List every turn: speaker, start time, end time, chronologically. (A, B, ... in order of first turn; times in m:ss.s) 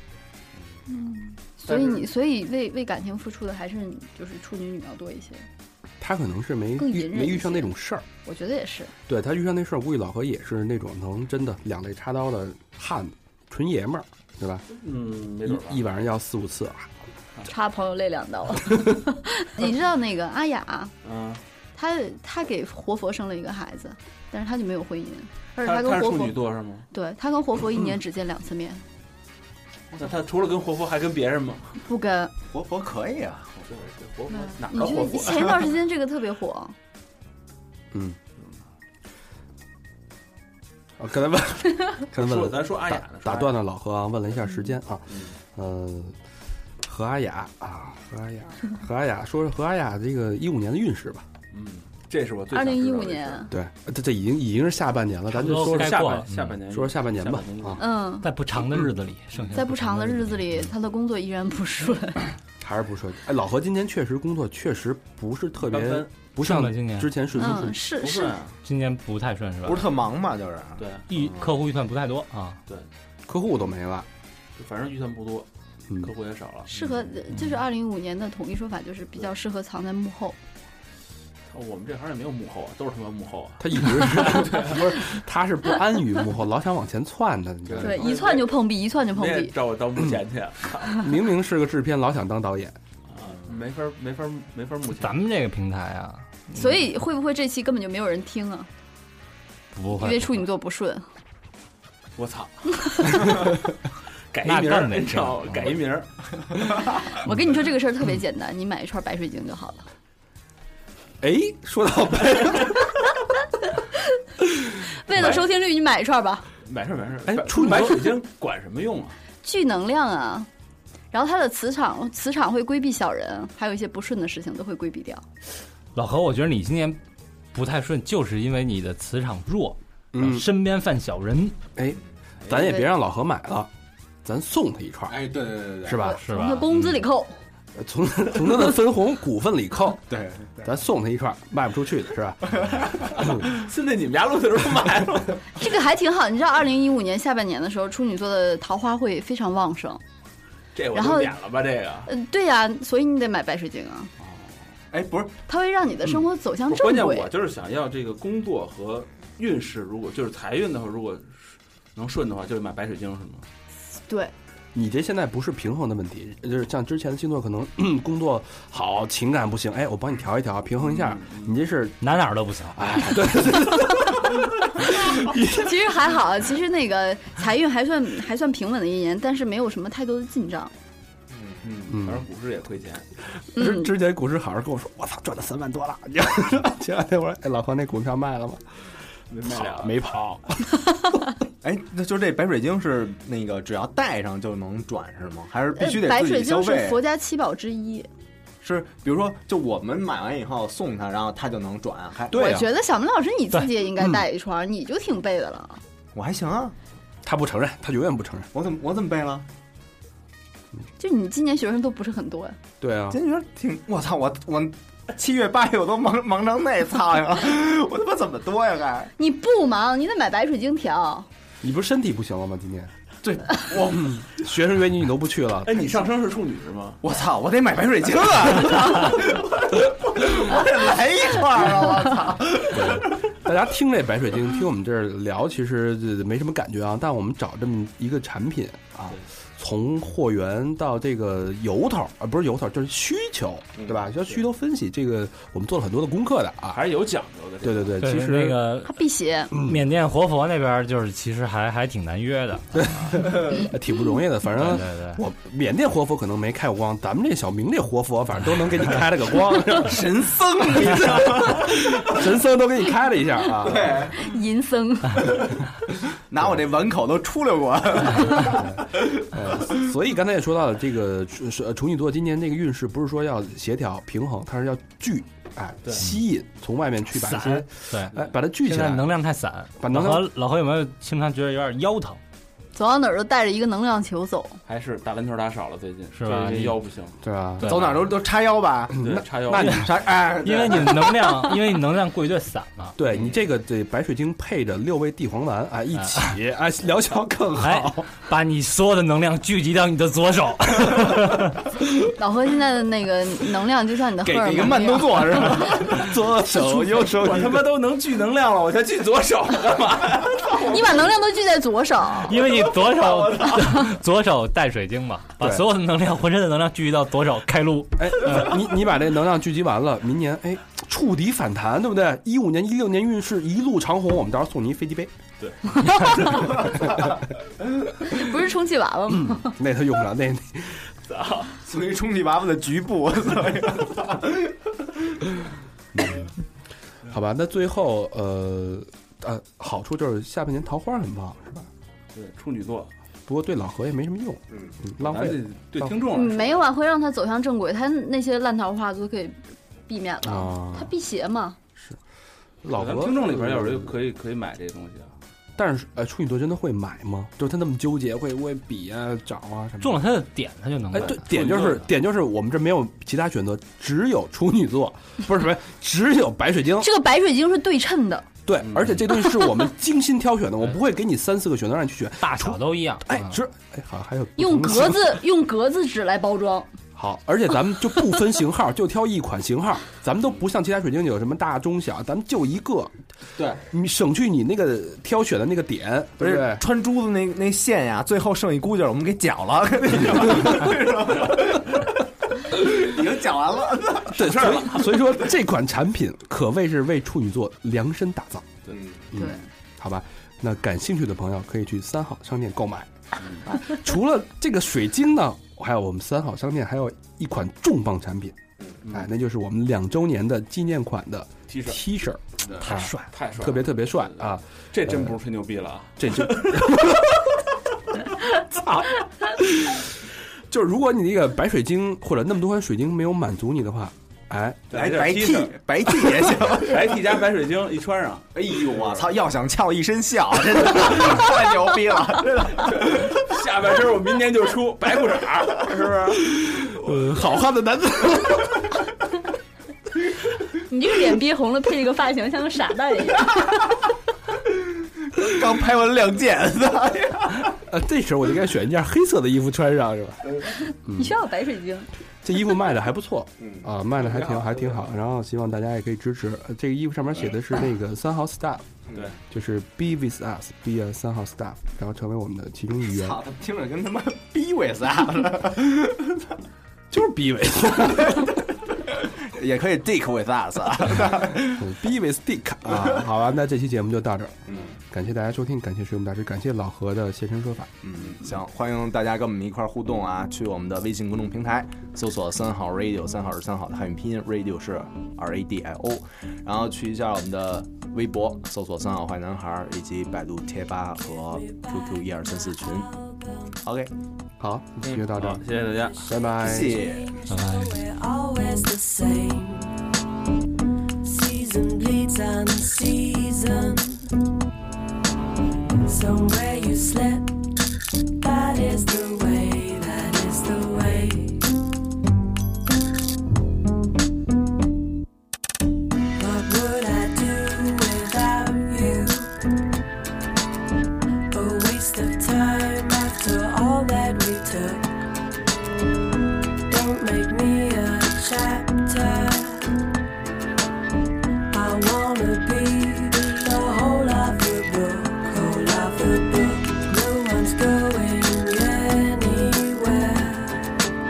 0:00.9-0:05.5 A
0:01.7-0:02.1 B
0:06.0-0:08.1 C
0:06.8-0:07.7 A
0:08.2-0:08.9 A
0:09.1-0:14.6 C
0:14.7-0:15.8 B
0:15.4-0:16.9 C
0:17.4-0:20.9 A
0:21.0-0:21.4 B
0:21.8-0:26.4 A
0:25.6-0:26.9 B
0:26.9-0:28.8 A
0:29.9-0:31.8 B
0:31.9-0:32.3 A
0:32.5-0:33.8 D
0:33.7-0:35.7 B
0:34.3-0:36.8 A
0:37.9-0:38.2 C
0:41.0-0:46.2 C
0:42.1-0:43.6 B
0:46.8-0:51.3 C
0:51.5-0:53.5 B
0:52.5-0:53.5 A
0:53.5-0:56.1 C
0:55.4-0:56.6 E
0:55.5-0:57.8 B
0:56.7-0:57.8 C
0:57.8-0:58.3 A
0:58.1-1:00.7 E
0:59.6-1:02.3 A
1:02.6-1:07.8 C
1:05.6-1:06.2 B
1:06.4-1:07.2 E
1:07.4-1:08.3 A
1:08.0-1:08.6 B
1:08.6-1:09.9 E
1:09.6-1:11.6 D
1:10.8-1:11.1 B
1:11.1-1:12.6 E
1:13.3-1:14.1 C
1:14.6-1:15.5 B
1:16.0-1:16.7 B
1:16.7-1:20.4 A
1:16.7-1:17.2 D
1:17.3-1:17.6 E
1:21.5-1:24.8 B
1:23.6-1:28.1 C
1:27.7-1:28.6 B
1:27.8-1:29.5 A
1:29.1-1:31.0 B
1:30.9-1:32.8 C
1:33.1-1:35.2 B
1:33.2-1:33.6 D
1:34.9-1:36.8 E
1:36.5-1:38.7 A
1:39.7-1:40.4 E
1:39.9-1:41.0 A
1:42.2-1:43.6 B
1:44.3-1:46.8 B
1:44.4-1:45.8 E
1:47.1-1:49.9 A
1:51.2-1:52.8 C
1:54.9-1:56.5 A
1:56.6-1:59.2 B
1:57.3-1:58.1 C
1:59.4-2:00.5 A
2:01.1-2:05.2 A
2:06.0-2:07.0 E
2:07.5-2:11.6 E
2:10.1-2:10.5 C
2:11.8-2:13.7 C
2:14.2-2:15.2 C
2:15.1-2:16.1 D
2:15.8-2:16.2 C
2:16.0-2:17.4 A
2:16.2-2:17.0 E
2:17.8-2:20.1 C
2:20.1-2:20.7 D
2:20.6-2:22.6 C
2:23.4-2:25.5 B
2:25.6-2:30.0 A
2:30.8-2:32.1 B
2:30.9-2:31.3 A
2:32.1-2:34.1 A
2:34.2-2:34.5 B
2:34.9-2:35.4 D
2:35.5-2:37.3 A
2:36.7-2:43.4 B
2:44.1-2:44.3 A
2:44.7-2:52.0 C
2:50.8-2:51.6 B
2:52.0-2:53.3 E
2:52.7-2:55.8 C
2:55.5-3:00.7 A
3:01.3-3:01.7 D
3:01.6-3:03.1 B
3:01.9-3:02.2 C
3:03.6-3:10.8 C
3:03.6-3:03.9 A
3:09.3-3:10.0 B
3:11.6-3:17.0 D
3:15.8-3:18.1 A
3:18.6-3:22.6 D
3:22.3-3:25.8 A
3:22.3-3:22.7 C
3:26.1-3:26.8 D
3:27.2-3:28.5 C
3:28.5-3:29.5 D
3:31.0-3:32.6 A
3:32.8-3:33.2 C
3:33.1-3:39.1 D
3:39.2-3:41.3 A
3:41.6-3:42.9 C
3:43.2-3:44.3 D
3:43.9-3:45.8 C
3:45.7-3:47.0 B
3:47.0-3:53.2 D
3:52.7-4:06.8 C
4:03.8-4:04.0 D
4:06.7-4:08.0 B
4:07.6-4:08.6 C
4:08.0-4:09.0 E
4:08.8-4:09.5 A
4:09.5-4:13.4 E
4:12.8-4:20.0 C
4:14.6-4:15.2 E
4:19.8-4:22.1 D
4:20.8-4:24.1 C
4:23.6-4:24.2 D
4:24.1-4:25.4 A
4:26.3-4:28.7 D
4:28.4-4:39.1 C
4:37.2-4:42.2 E
4:39.8-4:40.3 C
4:42.8-4:44.6 A
4:44.7-4:47.2 B
4:46.2-4:46.8 E
4:47.2-4:47.8 C
4:47.6-4:48.0 E
4:47.6-4:51.3 D
4:49.0-4:49.9 C
4:49.0-4:49.8 B
4:49.6-4:53.0 E
4:53.0-4:58.1 C
4:55.9-4:56.4 E
4:57.6-5:01.7 E
5:02.1-5:05.7 A
5:04.2-5:07.6 D
5:06.5-5:07.1 C
5:07.2-5:11.0 B
5:10.5-5:12.4 A
5:12.2-5:18.6 E
5:12.5-5:13.7 D
5:13.5-5:13.8 A
5:15.4-5:15.6 C
5:18.0-5:25.1 C
5:25.4-5:25.8 B
5:25.9-5:26.4 A
5:28.0-5:29.6 A
5:29.1-5:30.8 C
5:31.1-5:31.6 B
5:31.6-5:34.9 D
5:36.0-5:36.3 C
5:37.0-5:41.7 C
5:42.1-5:42.9 B
5:43.3-5:46.0 C
5:45.0-5:46.7 B
5:46.1-5:51.6 A
5:50.2-5:50.9 C
5:52.6-5:53.9 C
5:52.8-5:55.2 B
5:55.6-6:00.0 C
5:59.8-6:01.6 E
6:00.9-6:06.9 C
6:01.0-6:01.9 B
6:06.8-6:08.3 A
6:08.5-6:15.2 C
6:08.6-6:09.0 B
6:12.2-6:13.4 E
6:14.4-6:16.7 A
6:17.0-6:23.0 C
6:23.4-6:23.6 D
6:23.6-6:26.6 C
6:26.2-6:31.9 D
6:32.4-6:34.3 D
6:34.1-6:38.5 C
6:34.2-6:35.2 B
6:38.7-6:39.1 D
6:39.1-6:42.9 C
6:39.2-6:39.4 A
6:43.4-6:48.4 C
6:48.9-6:55.2 C
6:51.5-6:51.8 B
6:52.6-6:53.1 E
6:53.1-6:56.8 B
6:56.0-6:57.1 C
6:58.6-6:59.9 C
7:00.5-7:04.7 C
7:04.7-7:05.6 B
7:04.7-7:07.0 D
7:06.6-7:09.1 B
7:08.3-7:13.2 D
7:12.7-7:16.3 B
7:16.4-7:18.7 C
7:20.7-7:23.8 A
7:25.1-7:27.6 D
7:27.6-7:31.1 C
7:30.7-7:31.9 A
7:32.2-7:38.7 C
7:33.4-7:33.7 D
7:34.2-7:34.4 B
7:38.9-7:39.2 D
7:39.3-7:43.2 C
7:42.9-7:46.3 D
7:46.9-7:48.4 C
7:49.0-7:51.7 D
7:51.5-7:57.7 C
7:52.7-7:53.0 D
7:54.5-7:54.8 D
7:57.8-8:12.9 D
8:11.0-8:13.6 F
8:13.6-8:13.9 D
8:14.4-8:15.5 C
8:14.8-8:16.0 B
8:15.7-8:19.8 F
8:16.0-8:16.8 C
8:16.4-8:17.2 D
8:17.3-8:17.8 E
8:21.0-8:24.1 F
8:25.7-8:27.4 F
8:28.2-8:31.5 F
8:36.2-8:39.3 F
8:41.3-8:45.0 F
8:46.7-8:49.8 F
8:51.5-9:00.8 F